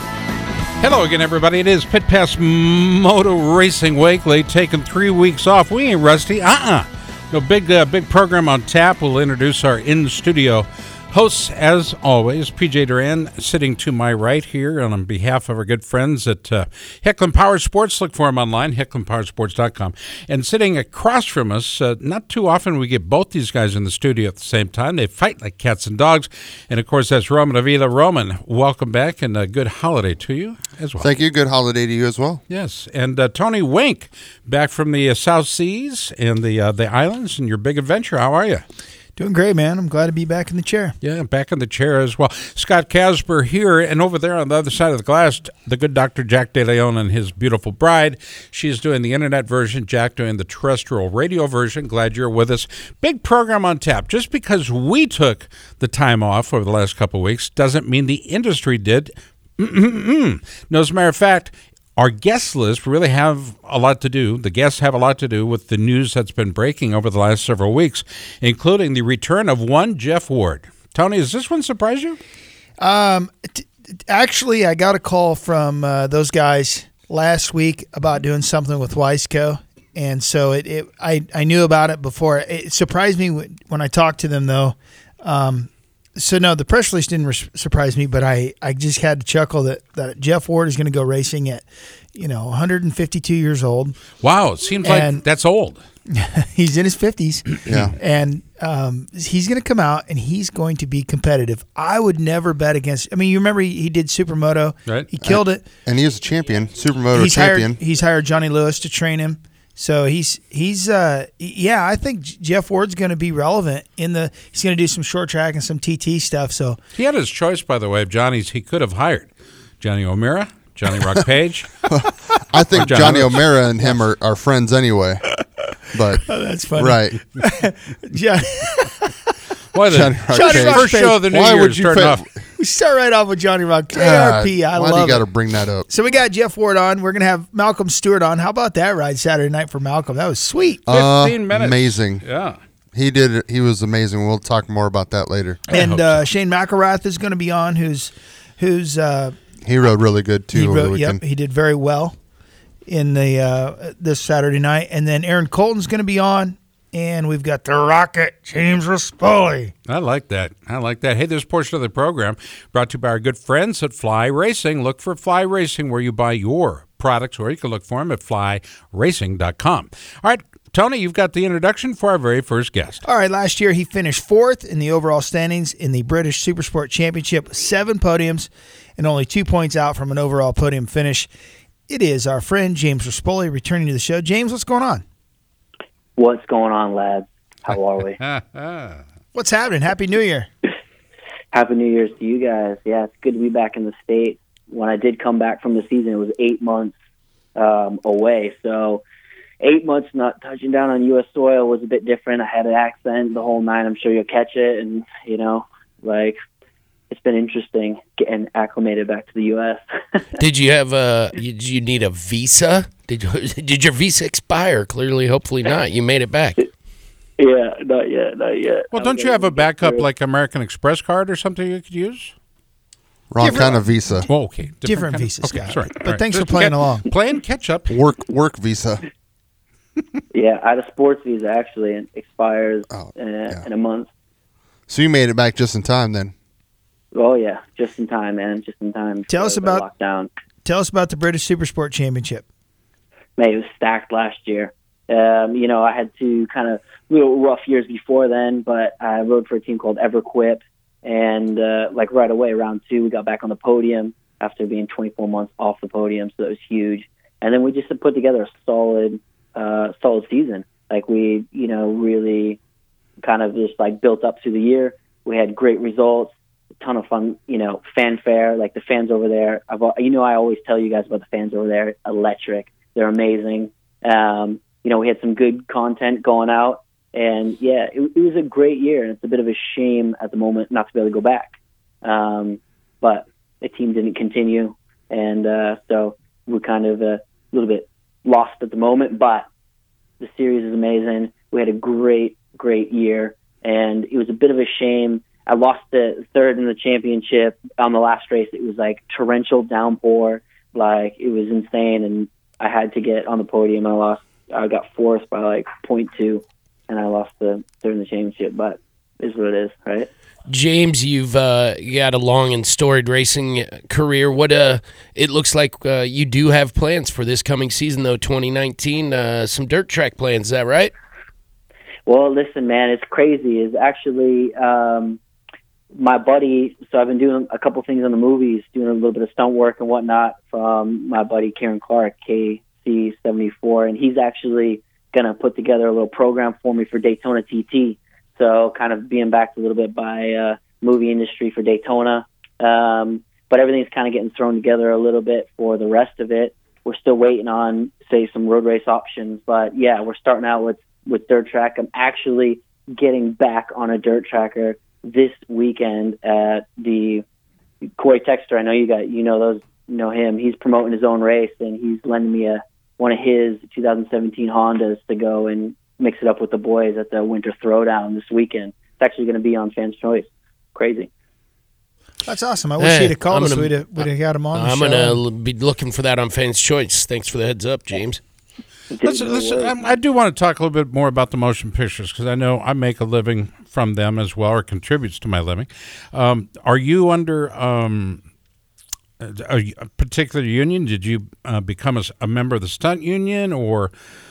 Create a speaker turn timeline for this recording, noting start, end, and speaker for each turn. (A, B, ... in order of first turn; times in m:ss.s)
0:00.8-0:31.1 A
0:31.0-0:32.4 B
0:32.5-0:38.6 A
0:39.2-0:41.0 C
0:41.0-1:12.2 A
1:12.8-1:34.0 C
1:34.2-1:35.8 A
1:34.8-1:35.2 C
1:36.1-1:45.7 C
1:37.6-1:38.0 B
1:45.2-1:47.8 B
1:47.1-1:56.8 C
1:56.9-1:59.3 A
1:59.8-2:01.7 A
2:01.9-2:05.2 B
2:02.7-2:03.5 A
2:05.9-2:06.2 B
2:06.0-2:09.1 C
2:06.8-2:07.2 B
2:09.7-2:12.2 A
2:09.9-2:12.4 B
2:10.3-2:11.3 C
2:12.5-2:15.3 C
2:13.9-2:15.9 B
2:15.9-2:20.9 C
2:20.8-2:22.2 B
2:20.9-2:22.6 A
2:22.9-2:25.6 B
2:25.7-2:26.2 A
2:25.7-2:29.4 C
2:29.6-2:31.2 B
2:30.5-2:32.2 C
2:32.8-2:39.7 C
2:39.9-2:53.0 A
2:53.0-3:01.3 C
3:01.9-3:05.0 C
3:06.2-3:08.2 D
3:08.2-3:09.0 A
3:09.3-3:10.5 C
3:11.5-3:16.9 D
3:17.6-3:19.0 D
3:19.6-3:26.4 D
3:27.1-3:30.2 D
3:30.4-3:36.6 E
3:37.4-3:40.0 D
3:38.9-3:42.3 A
3:43.3-3:44.3 B
3:43.4-3:44.3 C
3:44.3-3:47.9 A
3:44.8-3:47.1 C
3:47.9-3:49.0 B
3:50.3-3:54.1 D
3:52.9-3:53.6 B
3:54.9-3:56.3 B
3:57.1-4:00.3 D
3:59.3-3:59.8 C
4:00.6-4:02.4 C
4:03.4-4:22.6 D
4:23.2-4:49.5 D
4:50.2-5:10.1 D
5:10.5-5:20.9 E
5:22.1-5:25.2 D
5:25.9-5:57.2 D
5:58.0-6:11.1 D
6:12.2-6:15.2 C
6:12.8-6:18.2 E
6:18.9-6:19.8 D
6:19.0-6:28.2 A
6:29.2-6:33.9 A